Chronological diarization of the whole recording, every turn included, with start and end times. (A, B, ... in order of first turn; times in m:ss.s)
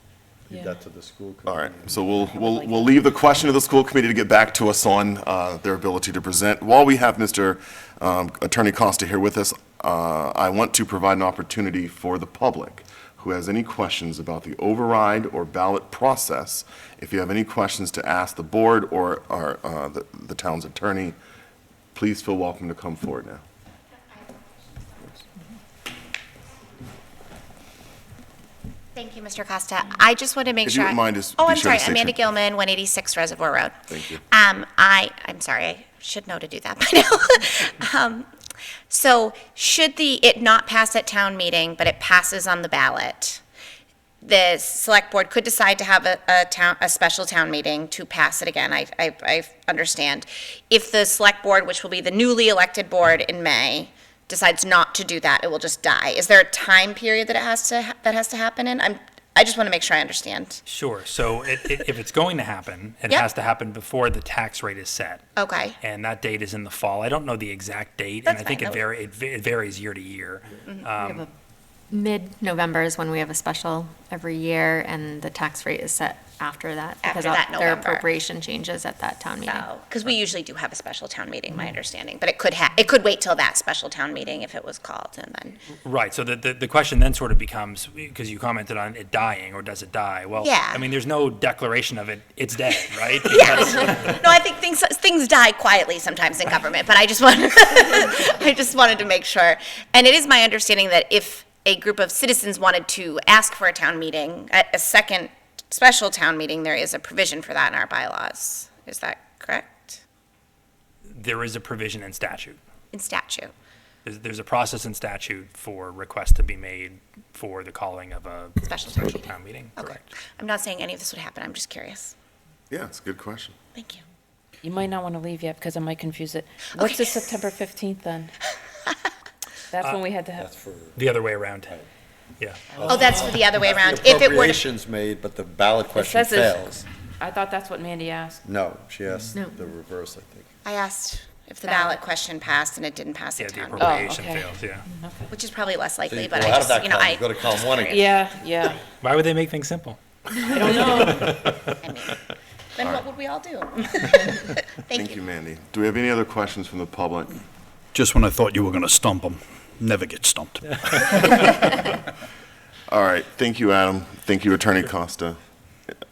0:00.5-0:02.1 A
0:00.5-0:00.8 B
0:01.5-0:21.2 C
0:02.4-0:02.9 B
0:22.0-0:23.4 C
0:29.0-0:38.3 D
0:30.6-0:32.2 C
0:33.9-0:34.2 C
0:38.9-0:43.4 D
0:44.2-1:00.6 D
1:00.7-1:05.3 E
1:05.4-1:05.8 D
1:05.8-1:11.2 E
1:08.3-1:08.8 D
1:10.7-1:10.9 D
1:11.0-1:11.3 F
1:11.9-1:19.7 F
1:17.0-1:18.1 D
1:19.5-1:25.6 D
1:25.8-1:34.2 E
1:30.4-1:30.8 D
1:33.3-1:50.0 D
1:51.1-1:52.6 E
1:52.9-1:53.5 D
1:54.0-2:00.1 E
1:58.7-2:02.1 D
2:02.7-2:03.6 C
2:03.8-2:04.0 D
2:04.6-2:08.3 B
2:06.7-2:07.4 D
2:09.7-2:10.5 B
2:10.4-2:11.2 A
2:11.0-2:11.7 E
2:12.7-2:16.8 A
2:12.9-2:14.7 D
2:15.9-2:18.4 B
2:18.4-2:20.5 A
2:19.3-2:19.6 F
2:20.6-2:24.0 D
2:21.6-2:22.0 B
2:23.4-2:24.8 E
2:23.8-2:25.3 B
2:25.3-2:28.2 D
2:26.1-2:28.1 A
2:27.9-2:28.8 B
2:29.0-2:31.8 E
2:30.5-2:31.4 B
2:31.8-2:32.2 D
2:32.8-2:35.2 D
2:34.9-2:37.3 C
2:37.9-2:41.3 G
2:42.9-2:45.4 C